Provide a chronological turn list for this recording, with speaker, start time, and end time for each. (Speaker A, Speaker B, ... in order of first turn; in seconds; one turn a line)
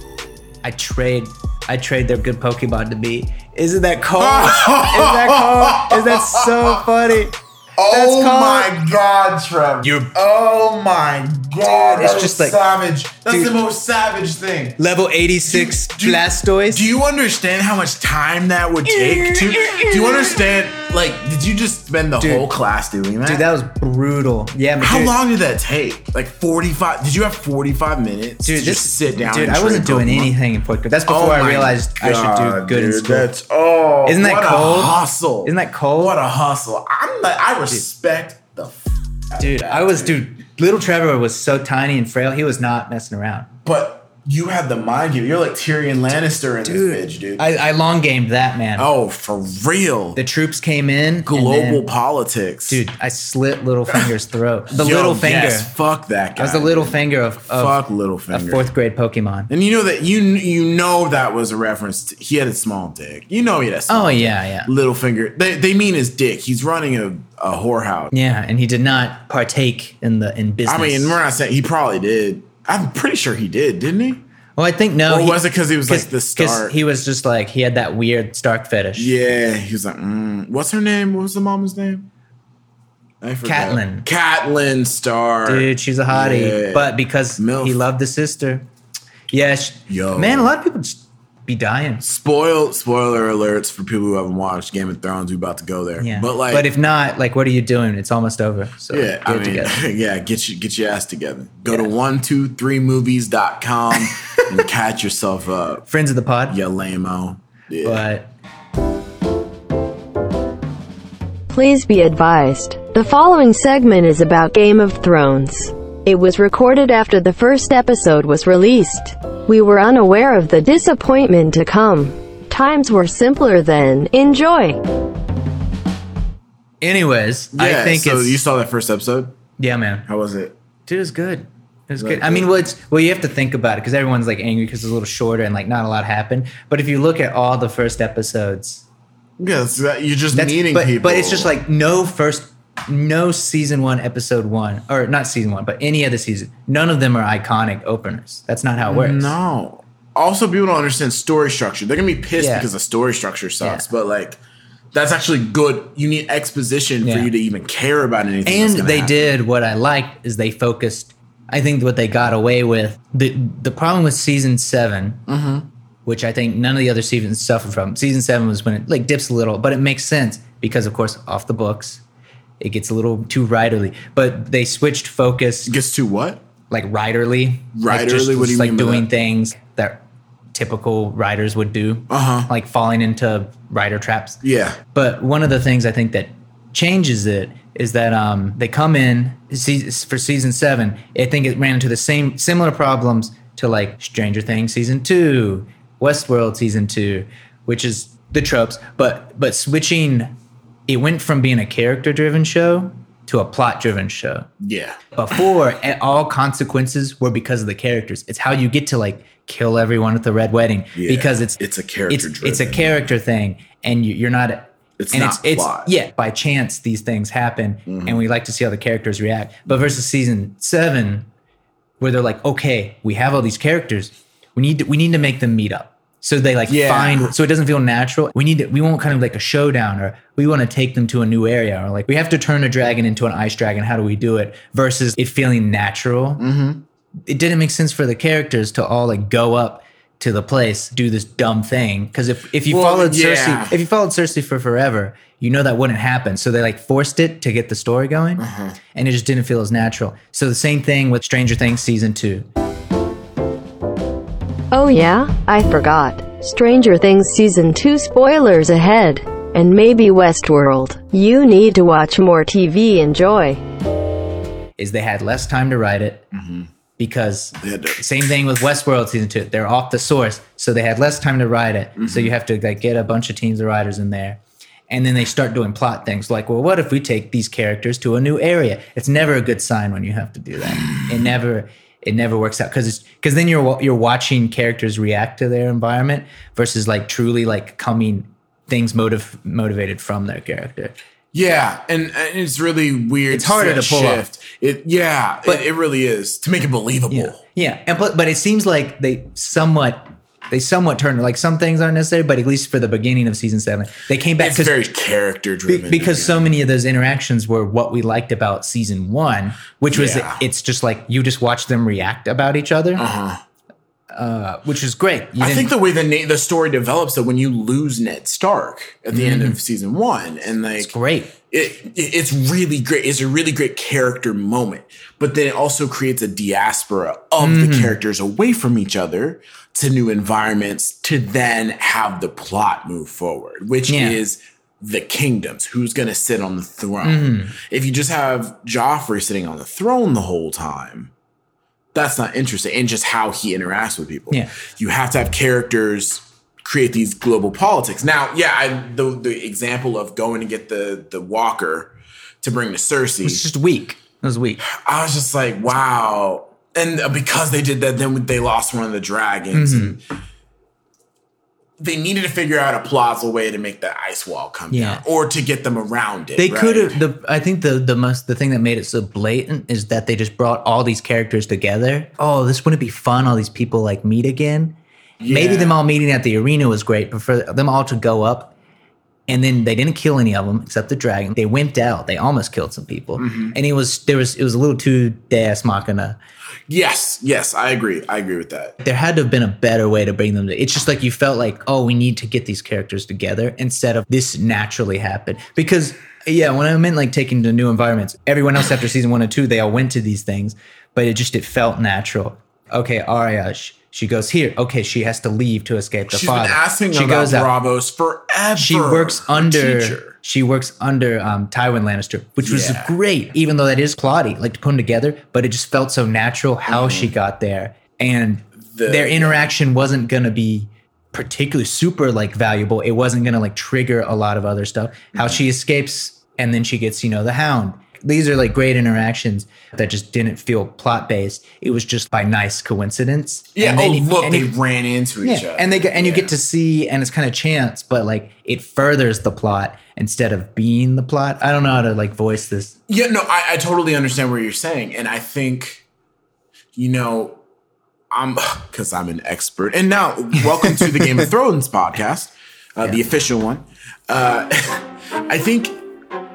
Speaker A: 0.6-7.3
Speaker B: 4.2-6.9
Speaker B: 7.8-14.8
Speaker A: 7.9-8.7
Speaker A: 9.8-10.1
Speaker A: 11.9-12.6
Speaker A: 14.8-16.8
Speaker B: 15.5-23.5
Speaker A: 18.9-20.4
Speaker A: 22.2-22.5
Speaker A: 23.2-25.2
Speaker B: 24.8-30.3
Speaker A: 28.4-33.3
Speaker B: 31.1-40.2
Speaker A: 34.0-36.2
Speaker A: 39.4-43.5
Speaker B: 43.6-47.5
Speaker A: 46.6-48.9
Speaker B: 48.8-50.2
Speaker A: 50.2-51.8
Speaker B: 51.3-52.8
Speaker A: 52.7-55.7
Speaker B: 54.7-58.7
Speaker A: 56.4-57.8
Speaker A: 58.3-59.5
Speaker B: 59.5-68.1
Speaker A: 63.9-64.7
Speaker A: 68.1-71.2
Speaker B: 70.7-74.2
Speaker A: 74.6-79.1
Speaker B: 75.1-76.8
Speaker B: 79.0-82.1
Speaker B: 83.2-87.8
Speaker A: 83.4-84.1
Speaker A: 85.5-88.7
Speaker A: 89.3-92.0
Speaker B: 89.9-90.5
Speaker B: 92.0-96.7
Speaker A: 96.0-99.9
Speaker B: 98.9-105.8
Speaker A: 105.9-106.6
Speaker B: 106.5-108.1
Speaker A: 107.8-108.3
Speaker C: 111.5-124.8
Speaker A: 126.8-128.4
Speaker B: 127.5-129.4
Speaker A: 129.6-130.1
Speaker B: 130.1-130.6
Speaker A: 130.9-138.8
Speaker B: 132.0-132.5
Speaker B: 139.4-141.5
Speaker A: 140.3-149.4
Speaker B: 148.8-154.4
Speaker A: 152.4-152.7
Speaker A: 153.6-153.9
Speaker B: 154.9-159.3
Speaker A: 157.0-157.3
Speaker A: 158.4-165.3
Speaker B: 165.3-165.7
Speaker A: 166.1-172.0
Speaker A: 172.6-175.7
Speaker B: 175.7-176.4
Speaker A: 176.7-180.0
Speaker B: 177.7-179.1
Speaker A: 180.5-184.4
Speaker B: 182.1-182.5
Speaker B: 184.4-184.8
Speaker A: 184.9-200.3
Speaker A: 200.9-204.5
Speaker B: 204.6-205.0
Speaker A: 205.1-221.3
Speaker B: 210.9-213.0
Speaker B: 215.0-215.9
Speaker B: 217.9-218.2
Speaker A: 222.0-236.4
Speaker B: 226.7-227.3
Speaker B: 236.4-236.8
Speaker A: 237.3-252.5
Speaker B: 242.7-243.8
Speaker B: 248.4-248.8
Speaker C: 254.7-263.6
Speaker A: 264.8-266.3
Speaker B: 266.3-266.7
Speaker A: 267.0-291.0
Speaker B: 267.6-268.0
Speaker B: 272.0-272.4
Speaker B: 280.7-281.2
Speaker B: 291.3-297.4
Speaker A: 293.3-294.2
Speaker A: 297.1-304.7
Speaker B: 304.4-306.5
Speaker A: 305.7-313.1
Speaker B: 309.9-310.4
Speaker B: 313.0-313.4
Speaker A: 314.1-315.7
Speaker B: 315.4-320.9
Speaker A: 319.1-319.6
Speaker A: 320.8-321.3
Speaker B: 321.5-341.1
Speaker A: 327.4-328.0
Speaker A: 333.9-334.2
Speaker A: 337.0-337.6
Speaker B: 341.9-353.5
Speaker A: 353.2-354.6
Speaker B: 354.6-360.0
Speaker A: 359.5-360.0
Speaker B: 361.8-367.0
Speaker A: 364.7-365.0
Speaker A: 366.4-374.8
Speaker B: 375.2-375.8
Speaker A: 375.3-378.5
Speaker A: 379.3-386.2
Speaker B: 383.2-383.6
Speaker B: 386.7-388.8
Speaker A: 388.8-407.5
Speaker B: 406.1-410.1
Speaker A: 408.6-434.5
Speaker B: 412.4-413.0
Speaker B: 416.7-417.1
Speaker B: 418.6-419.5
Speaker B: 425.1-425.4
Speaker B: 433.6-436.4
Speaker A: 435.2-442.8
Speaker B: 442.9-445.8
Speaker B: 446.8-447.4
Speaker B: 448.1-455.8
Speaker A: 450.8-451.2